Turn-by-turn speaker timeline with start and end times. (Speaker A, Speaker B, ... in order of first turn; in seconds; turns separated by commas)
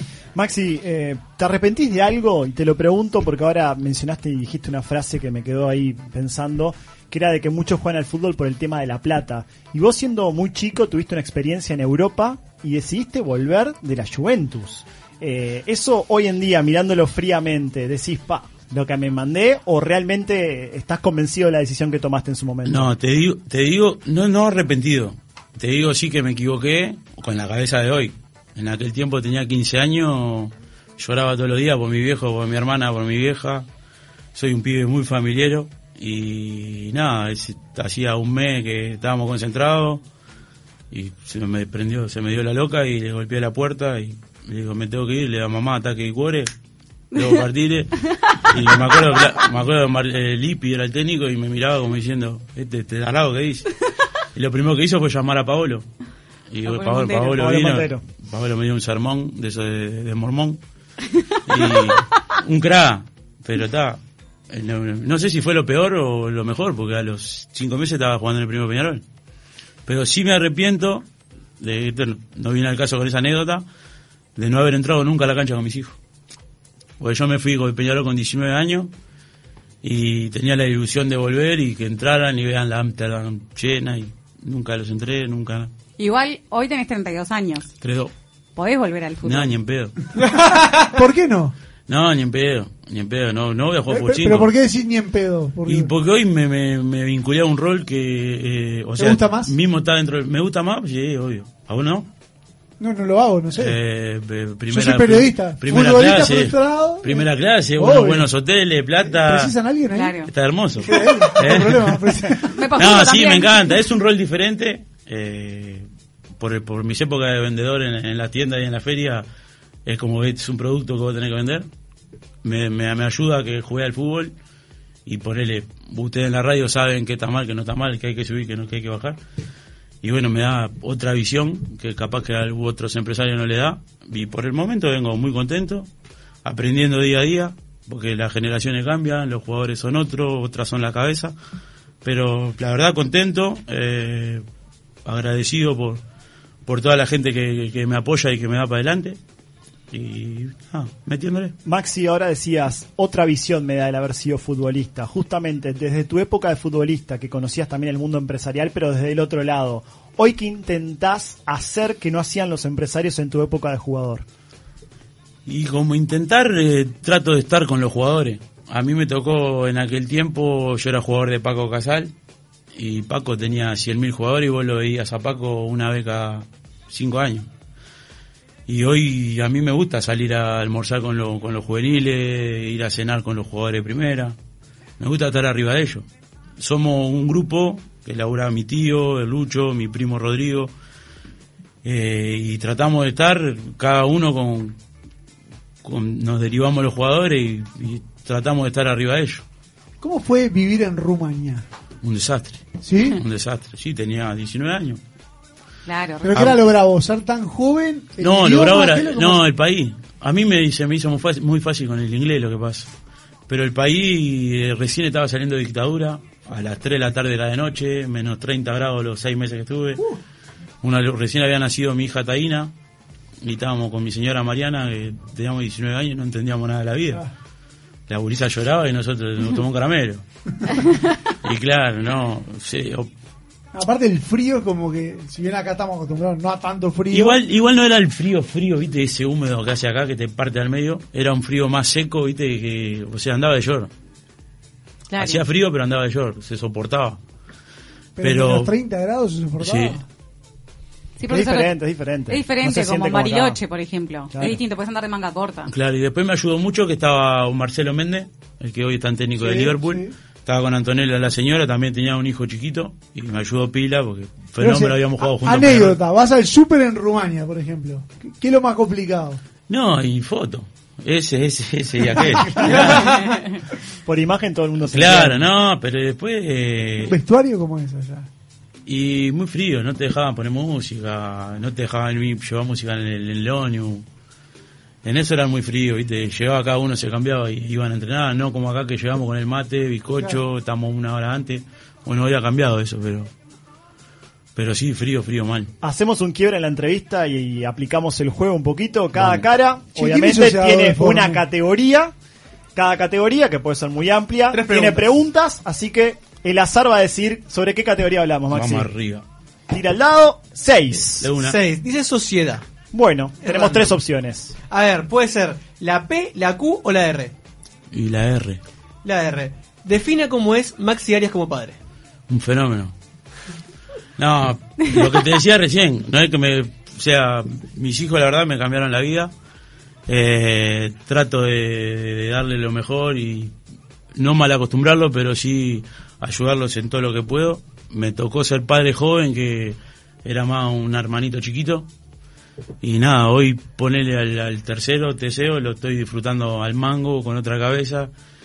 Speaker A: 0.3-22.9, Speaker B: 22.6-33.7, Speaker B: 34.3-40.0, Speaker B: 40.9-46.5, Speaker B: 47.1-53.7, Speaker B: 54.3-55.9, Speaker B: 56.5-60.6, Speaker C: 56.6-57.4, Speaker A: 57.2-58.0, Speaker B: 61.5-69.0, Speaker B: 69.9-71.1, Speaker B: 71.6-73.7, Speaker B: 74.4-76.0, Speaker B: 77.0-78.9, Speaker B: 79.8-85.7, Speaker C: 86.0-87.7, Speaker B: 87.8-88.1, Speaker C: 88.6-89.5, Speaker B: 89.2-90.0, Speaker D: 90.6-91.5, Speaker B: 91.9-94.5, Speaker D: 93.9-95.9, Speaker B: 95.7-102.1, Speaker D: 99.0-99.5, Speaker D: 102.8-103.8, Speaker B: 103.5-109.5, Speaker D: 104.7-108.3, Speaker D: 109.0-110.2, Speaker C: 110.0-110.3, Speaker B: 110.2-115.9, Speaker D: 110.8-112.5, Speaker C: 112.4-113.7, Speaker B: 116.4-119.3, Speaker B: 119.9-121.7, Speaker B: 122.4-124.3, Speaker B: 125.1-129.2, Speaker B: 130.0-135.9, Speaker B: 136.4-141.3, Speaker B: 142.0-144.4, Speaker B: 145.1-146.0, Speaker B: 146.7-149.2, Speaker B: 149.9-151.6, Speaker A: 151.7-164.2, Speaker B: 165.5-172.1, Speaker B: 172.7-177.5, Speaker B: 178.7-184.4, Speaker B: 185.0-186.1, Speaker B: 186.6-190.7, Speaker B: 191.8-194.8, Speaker B: 195.8-199.4, Speaker D: 200.0-201.7, Speaker B: 202.0-205.0, Speaker D: 202.8-203.2, Speaker C: 205.9-206.5, Speaker D: 206.2-209.4, Speaker B: 206.3-206.6, Speaker B: 208.2-212.9, Speaker B: 213.5-220.0, Speaker B: 220.8-222.7, Speaker B: 223.4-227.2, Speaker B: 228.1-230.2, Speaker B: 231.4-233.1, Speaker D: 233.7-237.4, Speaker B: 237.1-243.9, Speaker C: 245.1-245.4, Speaker B: 245.2-247.2, Speaker D: 248.2-250.0, Speaker B: 248.2-248.7, Speaker B: 249.6-250.0, Speaker C: 251.2-251.8, Speaker A: 251.3-253.6, Speaker C: 252.3-255.7, Speaker B: 255.7-266.0, Speaker D: 259.4-260.1, Speaker D: 264.6-269.4, Speaker B: 269.7-273.3, Speaker D: 272.3-273.0, Speaker A: 272.6-273.0, Speaker A: 274.1-275.4, Speaker B: 274.8-277.1, Speaker D: 277.0-278.3, Speaker B: 278.9-284.1, Speaker B: 285.0-293.3, Speaker B: 294.6-295.7, Speaker A: 295.8-302.1, Speaker B: 299.1-299.5, Speaker D: 299.9-301.4, Speaker A: 302.8-308.9, Speaker E: 304.5-305.1, Speaker B: 308.5-309.2, Speaker A: 309.7-311.3, Speaker B: 311.2-311.6, Speaker E: 311.4-312.6, Speaker A: 312.9-314.5, Speaker E: 313.4-314.0, Speaker E: 314.7-317.4, Speaker B: 317.9-318.6, Speaker E: 319.0-321.8, Speaker B: 322.3-322.9, Speaker B: 324.2-329.3, Speaker B: 330.1-333.6, Speaker B: 334.2-341.9, Speaker B: 342.8-348.1